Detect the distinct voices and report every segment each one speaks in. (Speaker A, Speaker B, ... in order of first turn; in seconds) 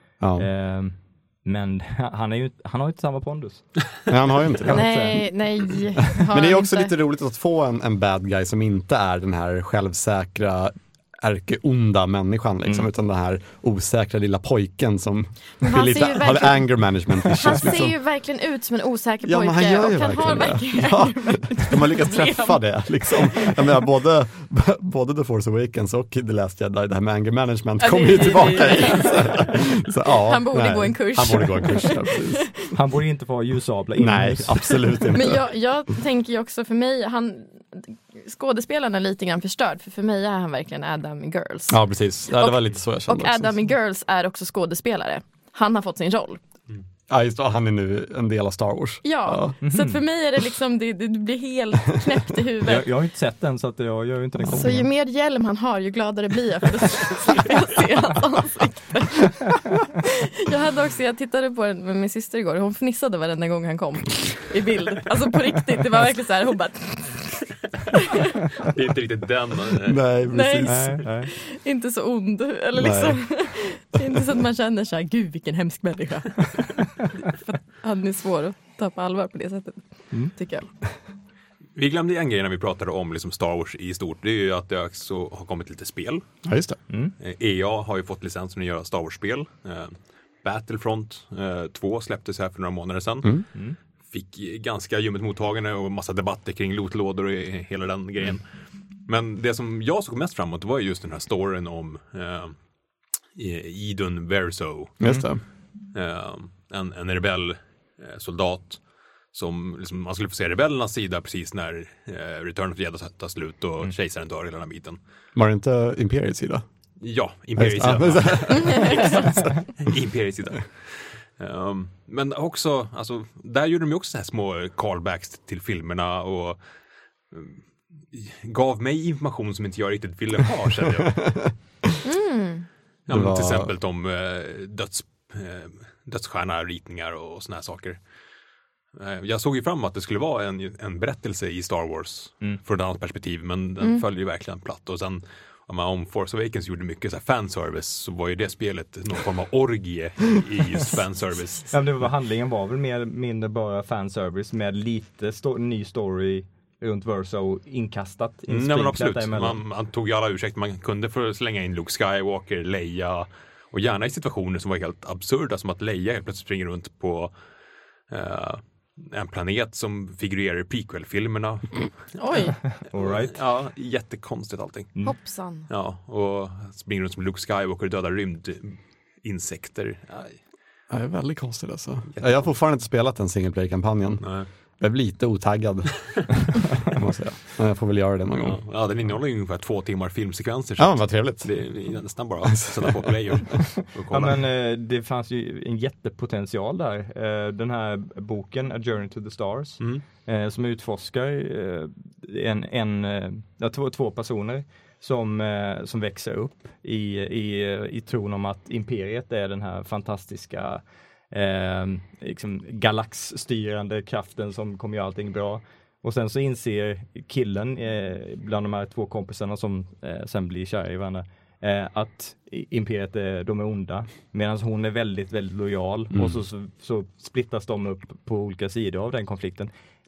Speaker A: 0.2-0.5, 4.1-5.1, 6.2-17.9, 19.2-32.7, 34.0-35.5, 41.7-43.5, 47.1-49.6, 69.8-71.0, 72.7-73.2, 86.4-86.8, 105.0-105.4, 115.3-116.6, 117.5-119.5, 131.1-132.0, 133.1-133.7, 180.9-184.2, 184.8-188.6, 190.8-191.5, 192.4-193.0, 226.1-226.4
Speaker B: 0.3-3.8, 4.6-5.2, 32.7-34.8, 49.6-50.0, 52.6-54.9, 70.7-71.3, 86.9-87.1, 151.7-159.6, 172.7-173.4, 194.1-229.7
Speaker C: 4.7-6.9, 15.6-16.7, 17.2-23.6, 27.8-29.6, 30.1-32.7, 35.1-41.8, 42.3-46.4, 49.0-52.9, 54.5-68.5, 70.3-80.7, 118.5-119.3, 132.0-132.7, 172.2-172.6, 175.0-175.7
Speaker D: 68.5-70.0, 81.8-86.2, 87.2-93.4, 94.1-98.4, 99.0-102.5, 103.3-105.2, 105.9-108.8, 109.3-115.0, 117.0-126.6, 127.3-131.4, 133.1-138.0, 138.9-151.7, 158.5-167.3, 168.1-171.9, 172.9-174.9, 175.7-180.4, 184.2-184.5, 188.4-194.4